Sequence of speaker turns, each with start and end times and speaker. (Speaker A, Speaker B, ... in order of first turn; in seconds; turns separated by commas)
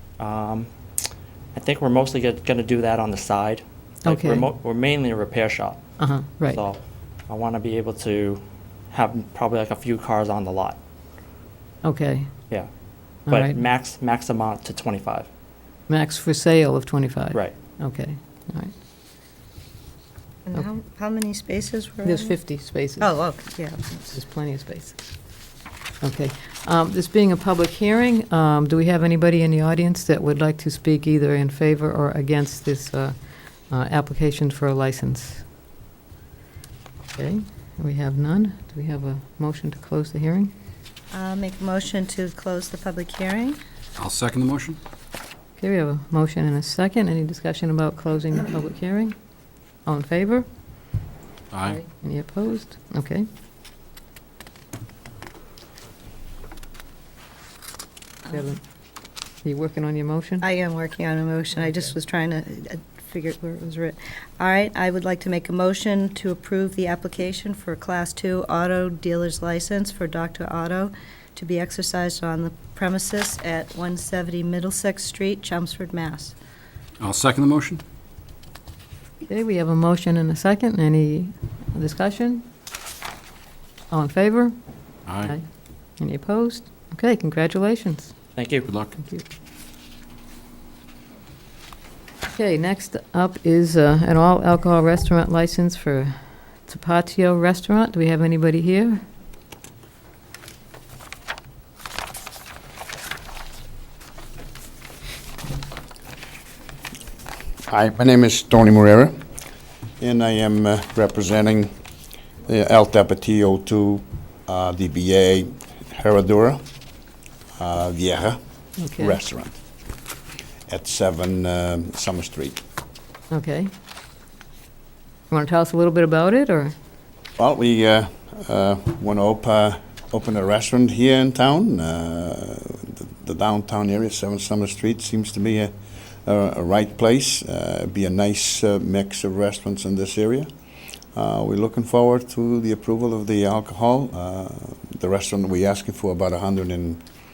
Speaker A: 0.2-0.7, Speaker A: 1.5-10.8, Speaker B: 4.0-4.5, Speaker B: 6.0-6.6, Speaker B: 11.8-12.3, Speaker A: 13.3-15.3, Speaker B: 13.3-13.6, Speaker B: 15.9-18.7, Speaker C: 20.5-22.4, Speaker B: 22.0-23.2, Speaker C: 23.0-24.2, Speaker B: 24.1-25.0, Speaker B: 26.0-33.2, Speaker B: 33.7-35.5, Speaker B: 37.2-40.5, Speaker C: 41.1-43.6, Speaker D: 44.0-44.8, Speaker B: 45.6-49.2, Speaker B: 49.9-50.5, Speaker D: 51.5-51.8, Speaker B: 51.7-53.3, Speaker B: 58.3-58.6, Speaker B: 59.4-60.5, Speaker C: 60.4-76.3, Speaker D: 77.0-77.8, Speaker B: 79.3-82.5, Speaker B: 83.9-84.5, Speaker D: 85.1-85.4, Speaker B: 86.0-88.1, Speaker A: 88.4-88.7, Speaker D: 88.7-88.9, Speaker B: 89.0-89.2, Speaker B: 92.3-99.0, Speaker E: 107.7-109.2, Speaker E: 110.0-111.8, Speaker E: 112.5-116.6, Speaker E: 117.6-118.4, Speaker B: 118.8-119.2, Speaker E: 119.0-119.6, Speaker E: 120.7-122.6, Speaker B: 123.3-123.7, Speaker B: 125.3-126.8, Speaker E: 127.4-135.7, Speaker E: 136.2-140.5, Speaker E: 141.2-147.0